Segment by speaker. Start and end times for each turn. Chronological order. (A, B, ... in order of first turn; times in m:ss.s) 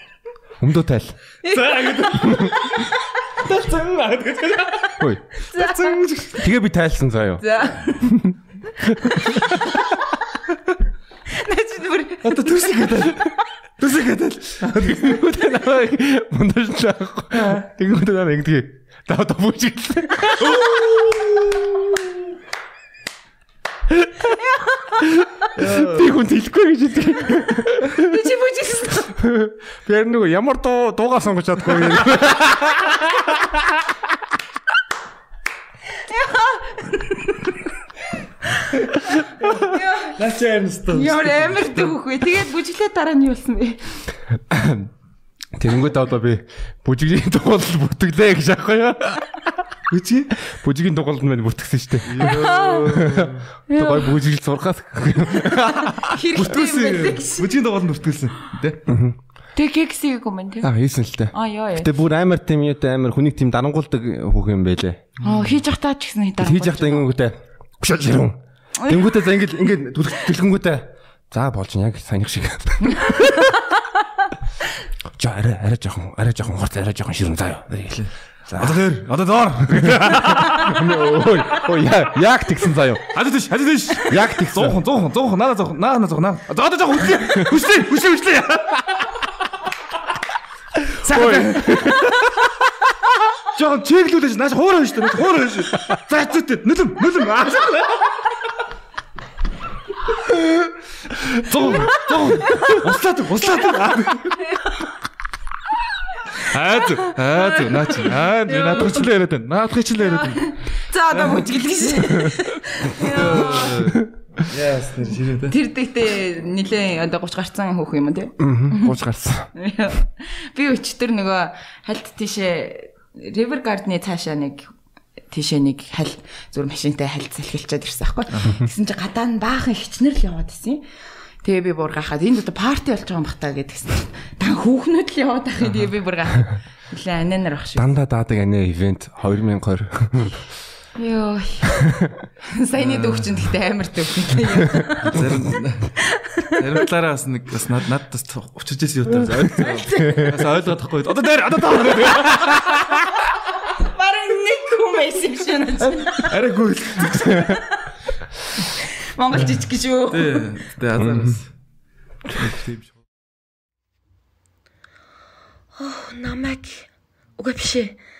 0:00.6-0:01.2 A
0:01.4-0:03.0 B
0:01.5-0:05.0 C
0:02.1-0:02.5 A
0:05.0-0:05.3 A
0:05.4-0:06.2 B
0:05.5-0:06.4 C
0:06.3-0:09.4 A
0:07.4-0:08.1 B
0:09.0-0:09.5 B
0:11.3-0:12.5 B
0:12.2-0:13.3 C
0:13.8-0:15.2 C
0:14.7-0:20.6 A
0:20.4-0:22.0 C
0:24.0-0:24.3 A
0:24.5-0:24.9 B
0:24.9-0:28.2 A
0:25.6-0:26.0 C
0:27.9-0:29.1 B
0:29.0-0:33.9 A
0:36.0-0:37.6 B
0:38.8-0:40.2 B
0:40.1-0:41.9 C
0:40.9-0:44.0 B
0:44.5-0:44.9 A
0:45.6-0:49.4 A
0:49.9-0:50.4 C
0:50.4-0:56.0 A
0:52.0-0:53.5 C
0:52.2-0:52.9 B
0:53.7-0:54.2 B
0:55.7-0:57.5 B
0:55.9-0:58.8 C
0:58.9-0:59.2 A
0:59.6-1:00.7 B
1:00.6-1:05.0 A
1:01.3-1:01.9 B
1:05.2-1:05.5 C
1:05.2-1:07.1 B
1:06.4-1:13.5 A
1:15.2-1:18.8 A
1:18.6-1:21.3 C
1:19.7-1:23.1 A
1:23.1-1:29.2 C
1:24.0-1:24.8 A
1:31.0-1:32.1 C
1:31.0-1:32.1 A
1:33.5-1:38.3 C
1:41.2-1:44.4 C
1:42.4-1:42.8 B
1:46.4-1:50.5 C
1:48.0-1:49.0 B
1:50.2-1:53.8 B
1:51.1-1:51.6 C
1:52.0-1:52.4 A
1:53.0-1:55.6 C
1:55.4-1:59.0 B
1:58.4-1:59.5 A
1:59.6-2:04.7 B
2:05.3-2:10.8 B
2:11.4-2:17.9 B
2:17.8-2:20.4 A
2:21.0-2:21.8 B
2:22.4-2:25.3 B
2:22.8-2:23.4 C
2:25.0-2:26.0 C
2:26.0-2:26.6 B
2:26.5-2:32.8 C
2:29.5-2:30.3 A
2:29.5-2:30.4 B
2:33.5-2:36.3 B
2:36.1-2:37.6 C
2:38.6-2:40.5 B
2:40.1-2:41.5 C
2:41.0-2:41.4 A
2:42.4-2:42.9 C
2:45.8-2:48.0 B